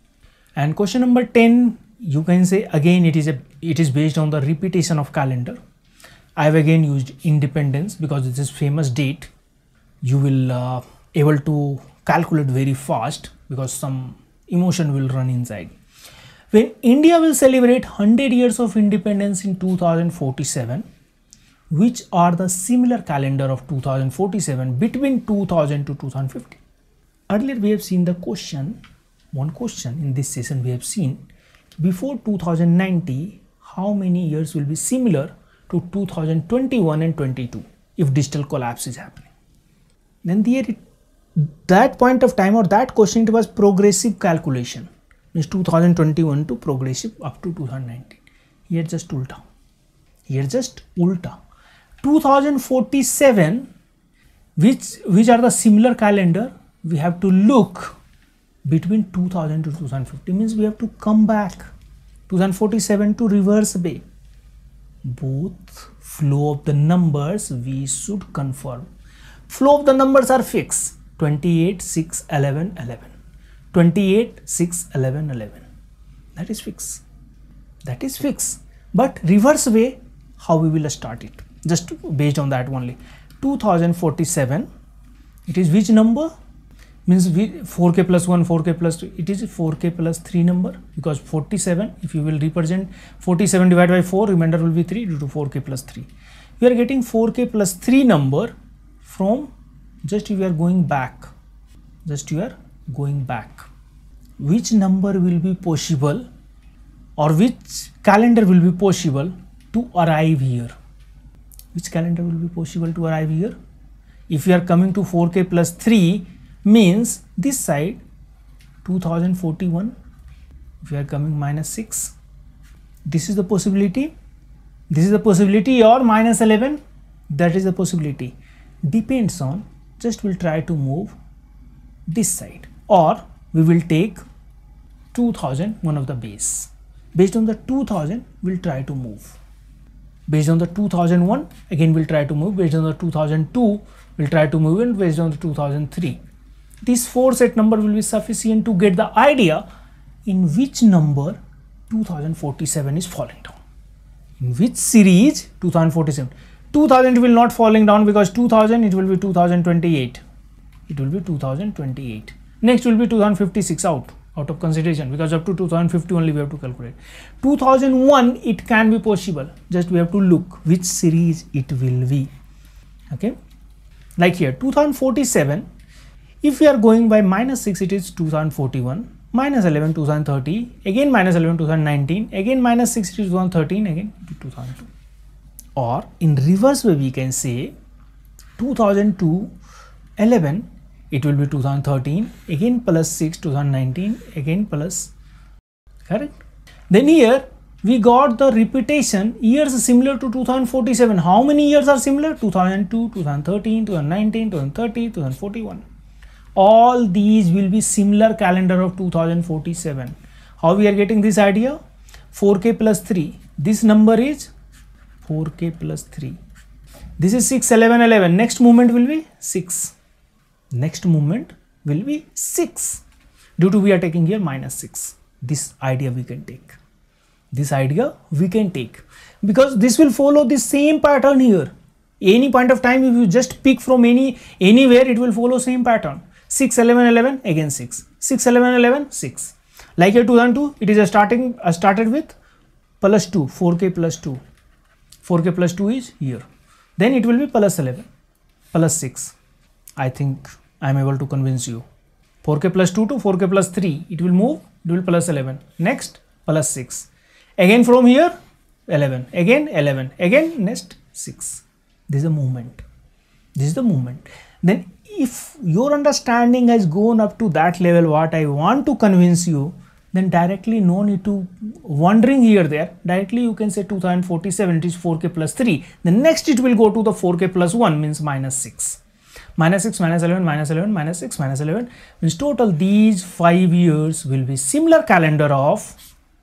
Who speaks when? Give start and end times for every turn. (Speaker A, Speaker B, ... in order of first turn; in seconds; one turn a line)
Speaker A: 0.6-5.6
Speaker A: 6.3-9.3
Speaker A: 10.0-15.7
Speaker A: 16.5-20.8
Speaker A: 21.7-26.6
Speaker A: 27.3-28.8
Speaker A: 29.3-31.2
Speaker A: 31.8-39.3
Speaker A: 40.2-40.8
Speaker A: 41.4-49.4
Speaker A: 50.3-51.4
Speaker A: 52.0-53.7
Speaker A: 54.5-57.9
Speaker A: 58.6-61.7
Speaker A: 62.3-64.0
Speaker A: 65.0-68.9
Speaker A: 69.5-73.1
Speaker A: 73.7-75.7
Speaker A: 76.3-77.0
Speaker A: 77.8-84.7
Speaker A: 85.5-86.3
Speaker A: 87.0-96.1
Speaker A: 96.6-99.5
Speaker A: 100.0-101.3
Speaker A: 102.0-103.7
Speaker A: 104.4-106.3
Speaker A: 107.2-110.7
Speaker A: 111.7-113.5
Speaker A: 114.3-118.0
Speaker A: 118.8-119.9
Speaker A: 120.8-122.1
Speaker A: 123.0-124.1
Speaker A: 124.9-128.3
Speaker A: 128.8-131.1
Speaker A: 132.1-134.2
Speaker A: 135.1-139.4
Speaker A: 140.3-146.2
Speaker A: 146.8-149.6
Speaker A: 150.2-153.6
Speaker A: 154.4-160.2
Speaker A: 160.9-172.3
Speaker A: 173.1-173.3
Speaker A: 174.2-175.7
Speaker A: 176.4-184.9
Speaker A: 185.8-187.7
Speaker A: 188.6-189.5
Speaker A: 190.2-195.1
Speaker A: 196.0-205.8
Speaker A: 206.6-211.8
Speaker A: 212.3-214.5
Speaker A: 215.2-216.4
Speaker A: 217.2-219.9
Speaker A: 220.7-223.0
Speaker A: 223.6-226.8
Speaker A: 227.5-242.3
Speaker A: 243.0-244.4
Speaker A: 245.2-246.4
Speaker A: 247.0-248.1
Speaker A: 248.7-249.3
Speaker A: 250.0-251.8
Speaker A: 252.4-258.3
Speaker A: 258.9-262.8
Speaker A: 263.5-279.0
Speaker A: 279.6-285.9